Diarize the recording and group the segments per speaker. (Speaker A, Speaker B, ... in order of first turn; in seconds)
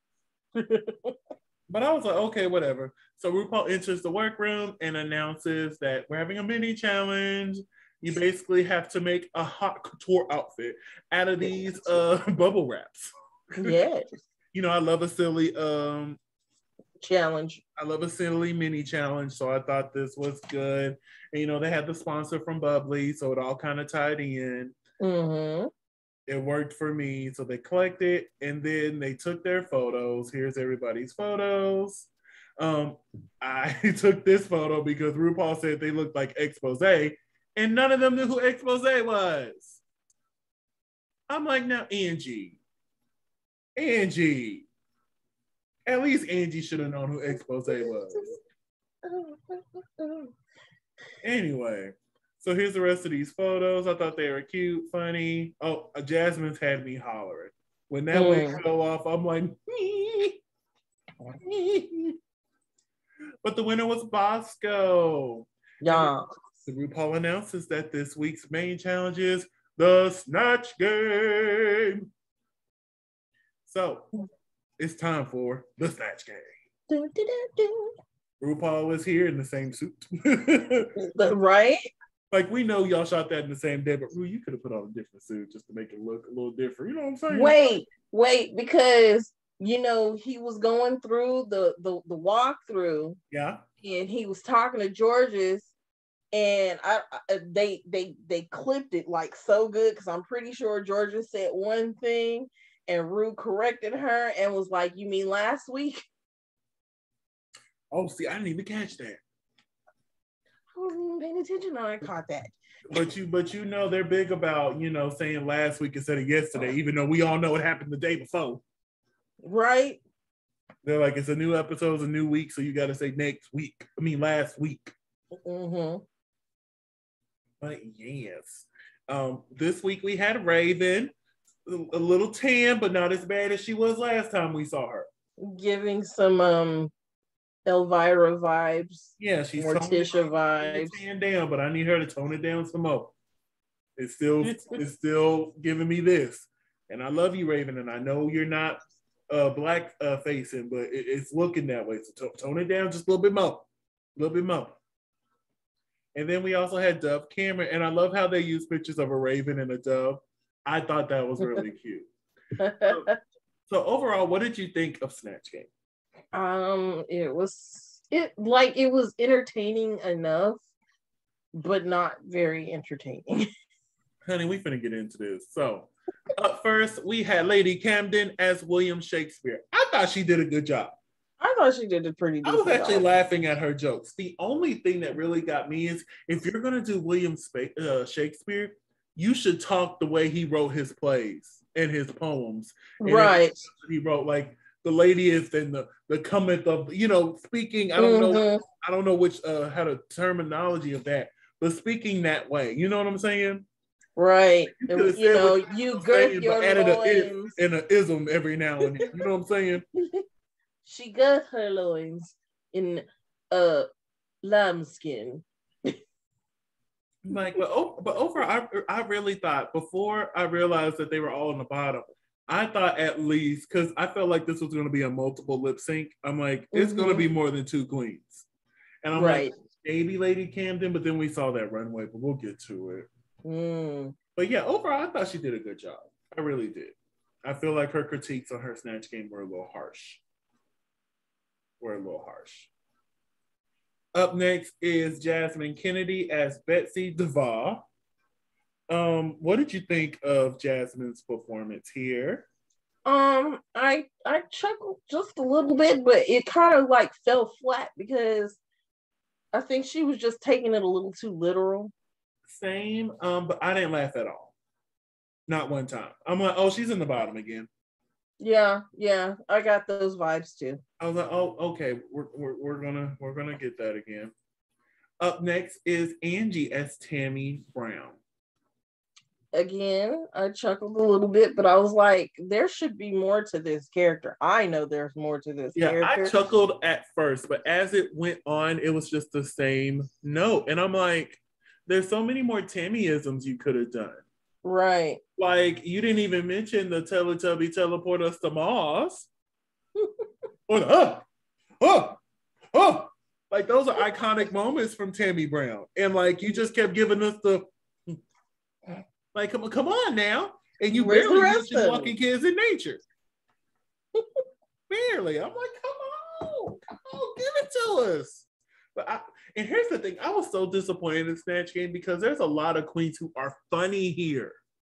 Speaker A: 0.6-1.1, 13.6-14.1, 17.0-17.6, 25.0-25.7, 47.7-48.3, 49.0-50.3, 58.1-58.6, 65.8-66.3, 76.9-77.9, 81.0-81.9, 87.3-93.2, 93.8-95.7, 96.3-106.0, 110.7-112.5, 119.4-120.0, 125.3-126.0, 135.4-136.9, 137.7-141.0, 144.4-144.8, 162.6-163.1, 166.3-170.6, 171.5-173.4, 181.4-183.0, 193.0-193.6, 198.0-198.6, 204.2-207.5, 209.9-210.2, 210.8-213.8, 214.4-215.9, 226.7-227.2, 229.1-229.5, 233.4-234.1, 253.1-258.6, 259.5-261.9, 268.4-270.8, 279.5-286.3, 294.6-295.2, 300.0-300.2, 310.9-312.1
Speaker B: 1.7-13.1, 14.5-16.2, 17.8-24.7, 26.3-39.8, 41.3-42.6, 43.8-44.7, 45.9-48.3, 51.2-60.4, 61.4-62.1, 63.4-72.0, 73.7-74.1, 74.8-76.5, 78.4-80.9, 82.3-87.6, 93.3-93.6, 107.9-109.2, 112.9-118.6, 120.8-124.9, 127.6-131.1, 131.7-135.1, 139.2-143.1, 144.0-148.8, 149.3-154.8, 156.1-162.1, 162.8-163.1, 163.7-165.7, 174.2-181.0, 182.4-203.7, 204.7-209.8, 217.2-228.5, 229.0-233.1, 234.3-240.2, 241.8-242.7, 244.1-247.8, 248.9-252.5, 262.5-264.5, 265.5-267.7, 271.0-274.3, 275.2-278.2, 285.7-294.2, 295.4-299.3, 300.7-301.2, 301.8-302.2, 302.7-308.1, 309.3-313.0, 314.9-324.6